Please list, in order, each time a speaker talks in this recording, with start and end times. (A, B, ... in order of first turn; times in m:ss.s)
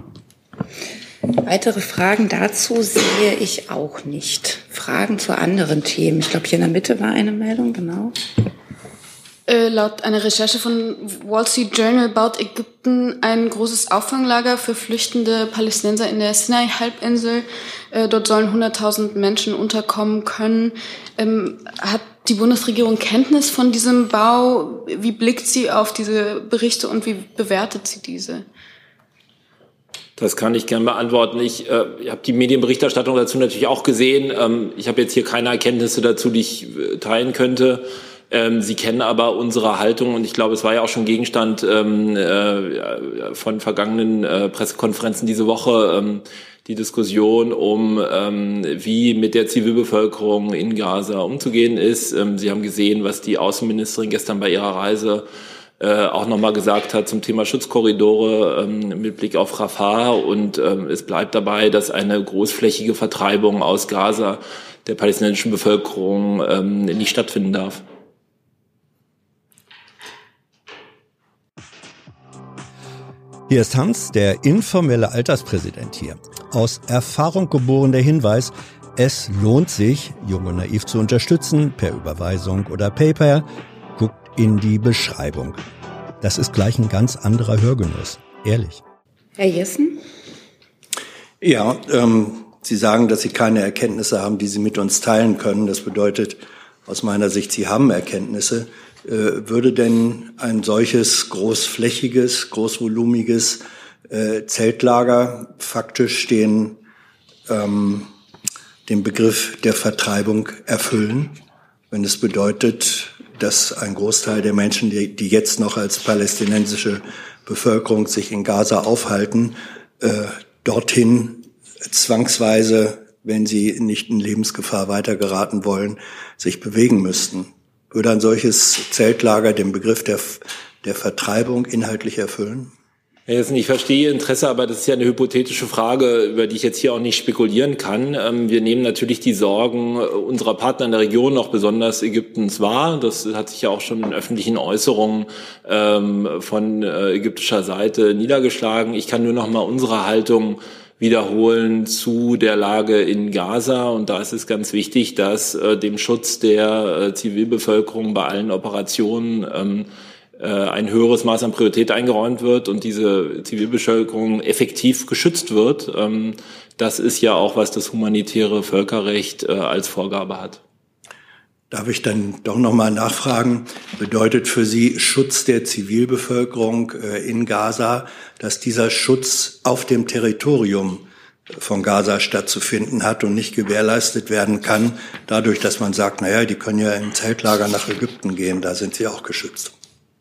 0:01.4-0:08.2 A
0:09.5-0:28.5 B
0:30.2-0:55.2 C
0:55.8-1:07.8 C
1:13.5-1:25.6 D
1:26.2-1:28.8 D
1:29.4-1:30.0 A
1:31.4-1:46.8 D
1:47.5-1:48.1 D
1:48.9-1:51.4 D
1:51.9-2:12.7 D
2:13.3-2:50.6 C
2:51.7-3:09.7 D